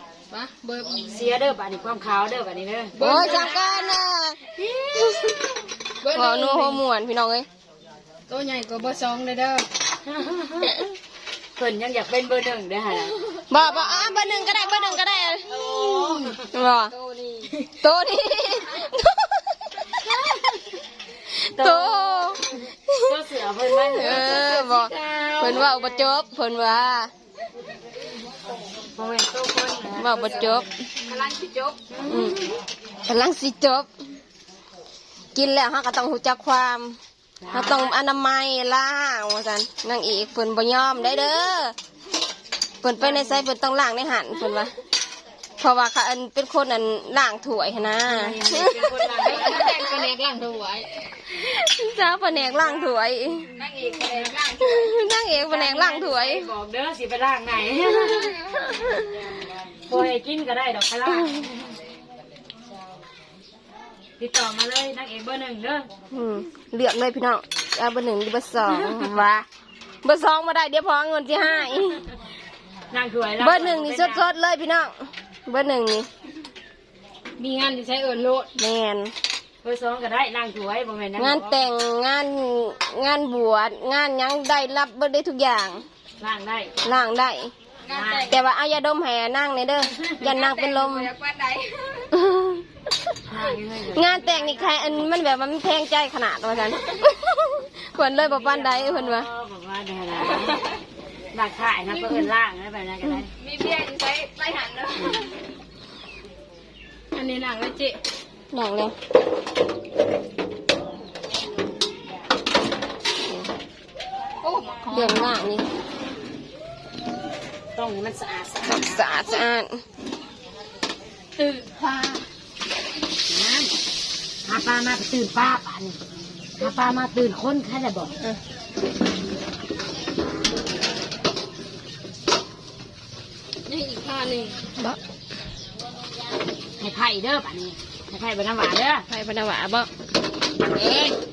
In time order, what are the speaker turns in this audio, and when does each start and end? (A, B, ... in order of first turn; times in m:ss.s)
0:00.3-0:01.3 A
0:01.1-0:03.8 B
0:02.9-0:03.7 A
0:03.0-0:04.4 C
0:04.6-0:05.5 B
0:06.0-0:06.8 A
0:06.1-0:07.5 C
0:08.3-0:09.7 A
0:10.0-0:10.8 B
0:11.6-0:13.2 B
0:13.5-0:15.5 C
0:15.5-0:16.4 B
0:15.6-0:17.6 A
0:16.5-0:17.0 C
0:17.8-0:19.9 C
0:21.3-0:23.1 C
0:21.6-0:22.4 B
0:23.0-0:24.6 B
0:23.8-0:27.1 C
0:23.9-0:26.1 A
0:28.9-0:30.7 B
0:30.0-0:30.7 C
0:31.0-0:31.8 A
0:31.9-0:32.5 B
0:32.1-0:32.4 C
0:33.1-0:33.9 C
0:35.4-0:37.0 C
0:37.4-0:37.9 B
0:37.5-0:41.8 C
0:42.8-0:44.7 C
0:43.0-0:43.5 B
0:45.6-0:48.8 C
0:48.1-0:49.9 B
0:49.1-0:50.9 A
0:51.3-0:53.5 C
0:53.6-0:55.0 A
0:54.6-0:56.5 C
0:55.3-0:58.4 B
0:59.9-1:01.8 B
1:04.2-1:05.9 B
1:06.1-1:09.5 C
1:10.0-1:12.1 C
1:12.9-1:14.3 B
1:13.4-1:16.1 C
1:17.4-1:18.5 A
1:18.6-1:19.1 C
1:19.6-1:21.6 B
1:21.2-1:25.8 C
1:26.2-1:26.7 B
1:26.8-1:27.5 C
1:27.8-1:28.4 A
1:27.9-1:28.4 B
1:28.3-1:31.1 C
1:29.8-1:30.2 B
1:30.2-1:32.1 A
1:32.1-1:32.6 C
1:33.3-1:34.2 B
1:33.9-1:39.3 C
1:34.2-1:34.8 A
1:38.2-1:40.6 B
1:41.3-1:43.3 B
1:41.9-1:42.3 A
1:43.4-1:45.3 A
1:45.0-1:45.3 B
1:47.2-1:48.0 A
1:48.5-1:48.9 C
1:53.3-1:53.5 C
1:54.4-1:55.4 A
1:54.9-1:55.7 C
1:57.8-1:59.2 B
1:58.6-1:59.8 C
2:01.4-2:02.2 A
2:03.3-2:03.8 B
2:04.4-2:06.0 B
2:06.6-2:08.1 B
2:13.7-2:14.6 A
2:16.8-2:19.1 B
2:19.1-2:19.9 C
2:20.7-2:21.2 A